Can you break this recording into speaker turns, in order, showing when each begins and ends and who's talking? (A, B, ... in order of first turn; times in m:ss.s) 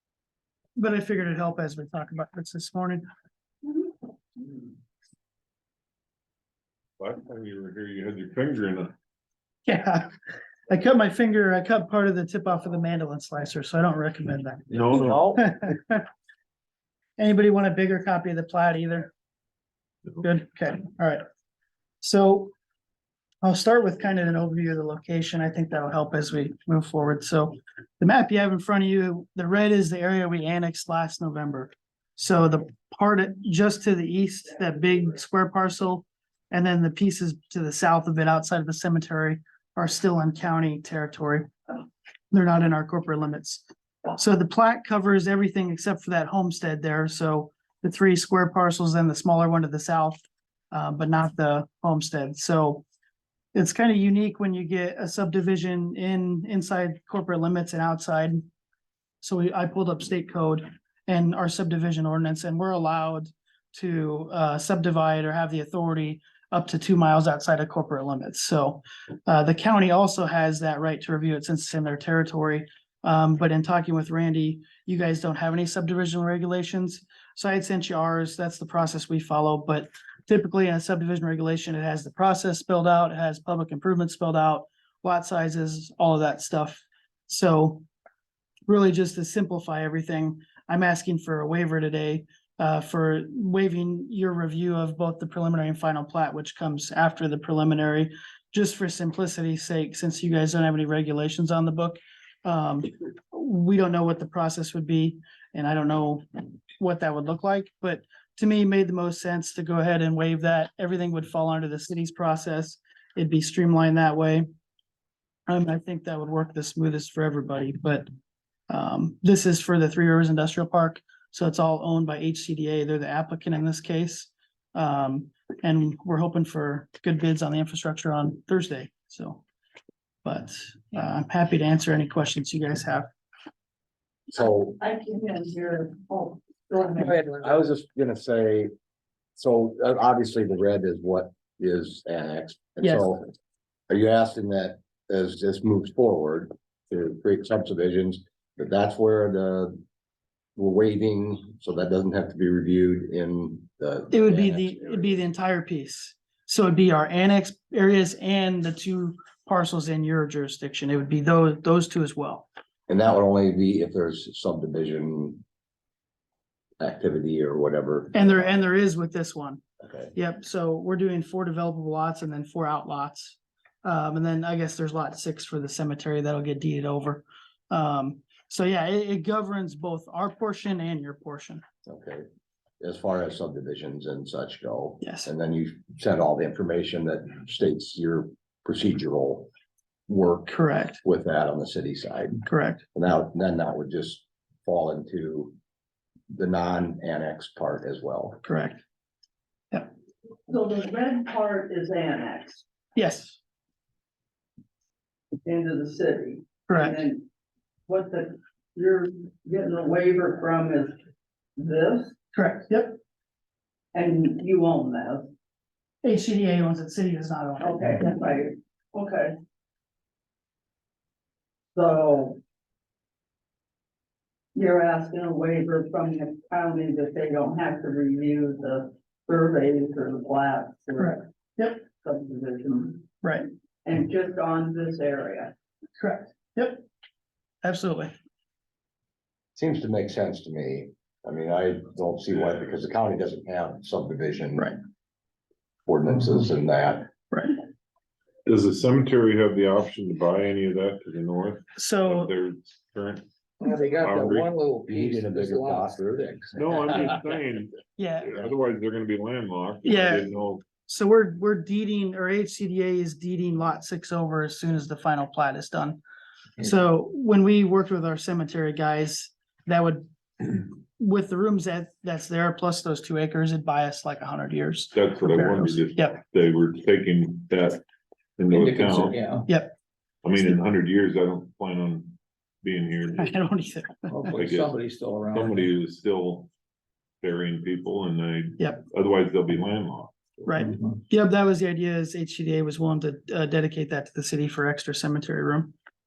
0:00.8-0:03.0 A
0:07.0-0:09.0 B
0:09.7-0:10.1 A
0:10.7-0:16.1 A
0:14.7-0:15.3 B
0:14.9-0:15.4 C
0:17.2-0:19.1 A
0:20.2-0:21.2 A
0:22.0-0:22.5 A
0:23.4-0:50.2 A
0:50.7-0:52.8 A
0:53.5-0:58.4 A
0:59.2-1:27.8 A
1:28.7-1:46.2 A
1:46.8-1:54.5 A
1:55.5-1:58.1 A
1:58.7-2:09.4 A
2:10.2-2:13.1 A
2:14.3-2:14.8 C
2:14.8-2:17.2 D
2:17.0-2:17.6 E
2:17.2-2:18.7 C
2:19.4-2:23.3 C
2:22.8-2:23.2 A
2:23.9-2:29.8 C
2:30.6-2:35.2 C
2:34.1-2:42.5 A
2:42.9-2:45.4 C
2:46.8-2:48.6 C
2:48.1-2:49.6 A
2:49.8-2:50.2 C
2:50.2-3:01.6 A
3:01.8-3:02.3 C
3:02.8-3:09.5 C
3:05.0-3:05.3 A
3:10.1-3:15.6 C
3:10.5-3:11.0 A
3:12.5-3:12.8 A
3:16.3-3:18.4 C
3:18.4-3:18.8 A
3:20.5-3:22.6 D
3:23.0-3:23.4 A
3:25.4-3:27.2 D
3:26.7-3:27.0 A
3:27.9-3:31.0 D
3:31.6-3:32.2 D
3:32.3-3:33.0 A
3:33.9-3:35.3 D
3:36.0-3:37.8 A
3:37.6-3:39.4 D
3:41.8-3:42.4 D
3:44.6-3:51.2 D
3:51.0-3:51.8 A
3:52.0-3:53.1 D
3:53.8-3:55.5 D
3:56.0-3:56.8 A
3:57.6-3:58.1 A
3:59.6-4:04.8 C
4:05.9-4:07.1 C
4:07.3-4:07.6 A
4:08.5-4:13.3 B
4:11.8-4:12.3 A
4:13.6-4:17.3 E
4:14.0-4:14.5 B
4:14.9-4:16.9 C
4:16.6-4:20.6 B
4:18.0-4:18.4 A
4:19.8-4:20.3 A
4:20.8-4:26.0 A
4:26.6-4:36.2 A
4:34.9-4:37.8 B
4:38.4-4:39.2 B
4:38.5-4:39.5 E
4:39.5-4:39.7 A
4:40.2-4:43.4 B
4:43.2-4:44.3 A
4:44.1-4:45.7 E
4:44.3-4:44.8 B
4:45.3-4:46.5 B
4:47.2-4:50.5 B
4:48.6-4:48.8 A
4:50.5-4:55.7 A